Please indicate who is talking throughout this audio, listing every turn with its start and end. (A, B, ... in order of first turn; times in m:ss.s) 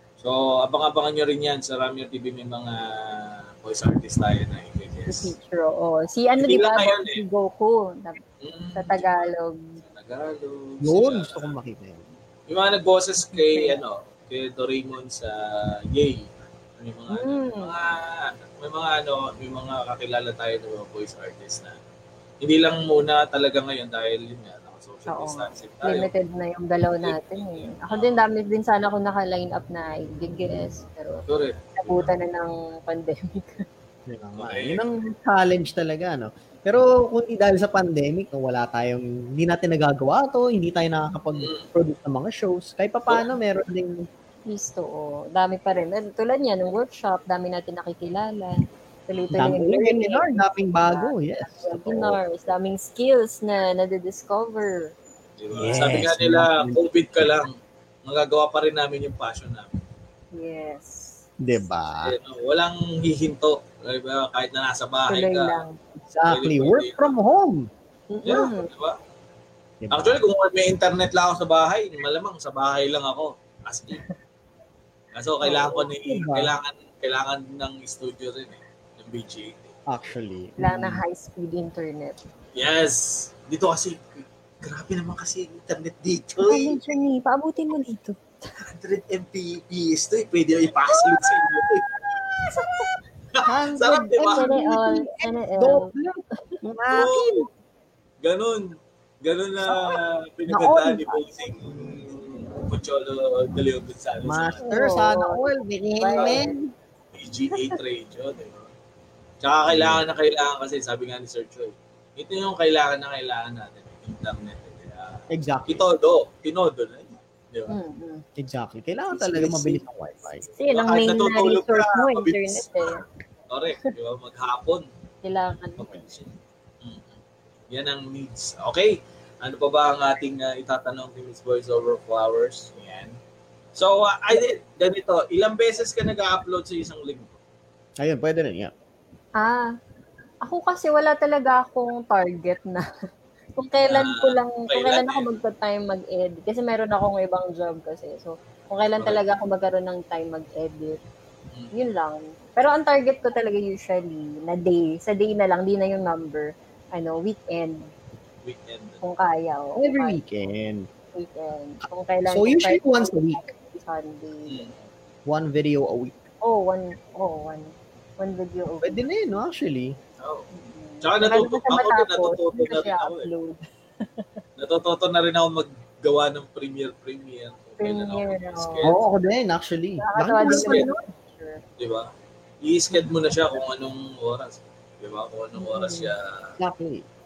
0:00.2-0:05.4 A
0:05.1-0:08.2 B
0:06.4-0:07.2 A
0:08.4-0:09.2 A
0:08.8-0:09.8 B
0:09.8-0:11.6 A
0:10.8-0:12.0 C
0:12.5-0:16.2 A
0:13.3-0:13.8 B
0:16.8-0:21.8 A
0:17.1-0:17.8 B
0:22.4-0:26.1 A
0:25.1-0:31.2 B
0:27.0-0:28.2 A
0:31.3-0:32.1 A
0:31.8-0:33.6 B
0:34.1-0:44.1 C
0:34.4-0:34.8 A
0:41.3-0:41.7 A
0:44.5-0:55.0 B
0:49.1-0:49.4 A
0:49.3-0:52.2 C
0:55.4-0:57.5 A
0:55.5-0:56.8 C
0:58.0-0:59.8 A
1:00.3-1:01.3 B
1:01.4-1:02.2 C
1:02.0-1:05.6 A
1:05.1-1:05.8 B
1:06.1-1:07.7 C
1:06.3-1:07.2 A
1:08.1-1:08.7 B
1:08.2-1:09.0 A
1:09.8-1:10.2 C
1:09.9-1:14.0 A
1:15.2-1:19.7 A
1:15.4-1:15.8 B
1:16.0-1:16.5 C
1:19.9-1:21.0 C
1:20.6-1:22.2 B
1:22.6-1:26.8 A
1:26.4-1:28.2 B
1:28.6-1:31.9 A
1:30.9-1:31.7 B
1:32.4-1:32.9 B
1:33.3-1:34.5 A
1:33.4-1:37.5 C
1:34.3-1:35.9 B
1:36.9-1:37.5 A
1:38.2-1:44.7 A
1:39.6-1:40.0 C
1:40.5-1:41.2 C
1:44.2-1:46.7 C
1:44.6-1:45.5 B
1:46.0-1:46.5 B
1:46.2-1:46.4 A
1:47.1-1:48.7 A
1:49.4-1:57.8 A
1:49.7-1:50.0 C
1:55.3-1:55.8 C
1:57.7-1:58.2 B
1:58.4-2:00.5 C
1:59.1-1:59.8 A
2:00.6-2:03.0 B
2:00.7-2:02.9 A
2:03.5-2:04.9 A
2:05.2-2:06.0 B
2:05.8-2:07.2 A
2:07.7-2:13.1 A
2:13.8-2:17.4 A
2:18.0-2:18.7 C
2:19.4-2:19.7 B
2:20.4-2:22.9 B
2:23.6-2:31.0 B
2:23.8-2:25.3 A
2:29.0-2:29.2 A
2:31.7-2:37.9 B
2:38.4-2:39.0 A
2:39.0-2:40.2 B
2:39.8-2:40.9 C
2:41.1-2:44.6 B
2:42.3-2:43.4 C
2:44.5-2:44.8 A
2:45.3-2:46.2 C
2:46.4-2:49.0 B
2:48.8-2:50.0 C
2:50.2-2:50.5 A
2:50.5-2:54.4 B
2:51.0-2:53.3 A
2:54.6-2:59.0 A
2:57.8-2:58.9 B
2:58.8-3:00.9 C
3:00.0-3:01.6 B
3:00.4-3:00.9 A
3:01.8-3:02.1 A
3:02.6-3:06.6 A
3:05.6-3:06.1 B
3:06.6-3:07.0 C